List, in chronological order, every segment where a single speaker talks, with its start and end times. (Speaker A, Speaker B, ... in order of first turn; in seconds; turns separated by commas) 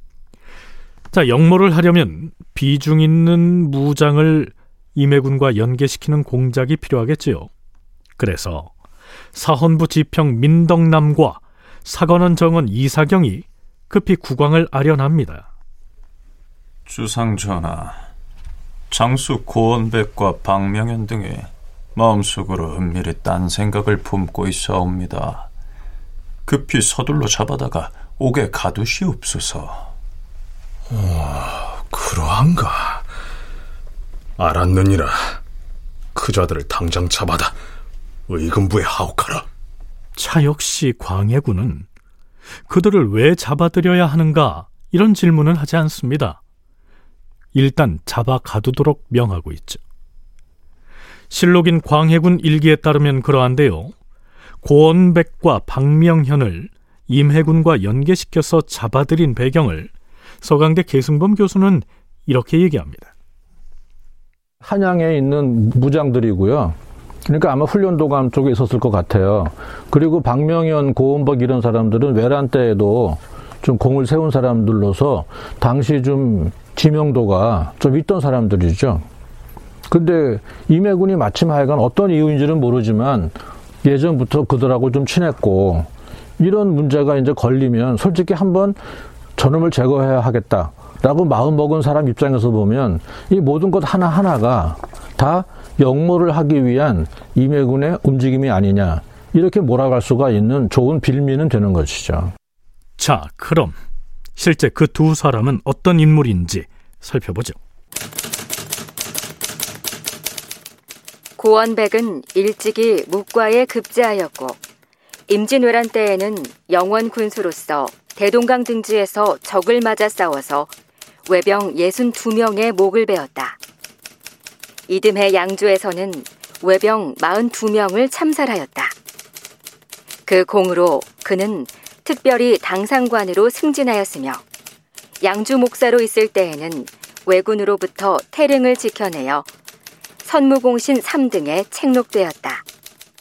Speaker A: 1.1-7.5, Speaker A: 8.2-8.7, Speaker A: 9.3-15.5, Speaker B: 16.9-18.1, Speaker B: 18.9-25.5, Speaker B: 26.5-29.9, Speaker C: 30.9-33.0, Speaker C: 34.4-35.4, Speaker C: 36.1-37.5, Speaker C: 38.3-39.5, Speaker A: 40.2-41.9, Speaker A: 42.7-46.4, Speaker A: 47.5-49.8, Speaker A: 51.3-53.9, Speaker A: 54.6-63.1, Speaker D: 64.6-66.8, Speaker D: 67.3-79.0, Speaker D: 79.9-85.9, Speaker D: 86.4-88.8, Speaker D: 89.4-102.3, Speaker A: 103.0-103.8, Speaker A: 104.3-107.6, Speaker E: 111.4-114.6, Speaker E: 115.3-120.7, Speaker E: 121.3-123.6, Speaker E: 124.9-128.9, Speaker E: 130.3-134.4, Speaker E: 135.2-139.5, Speaker E: 140.2-142.6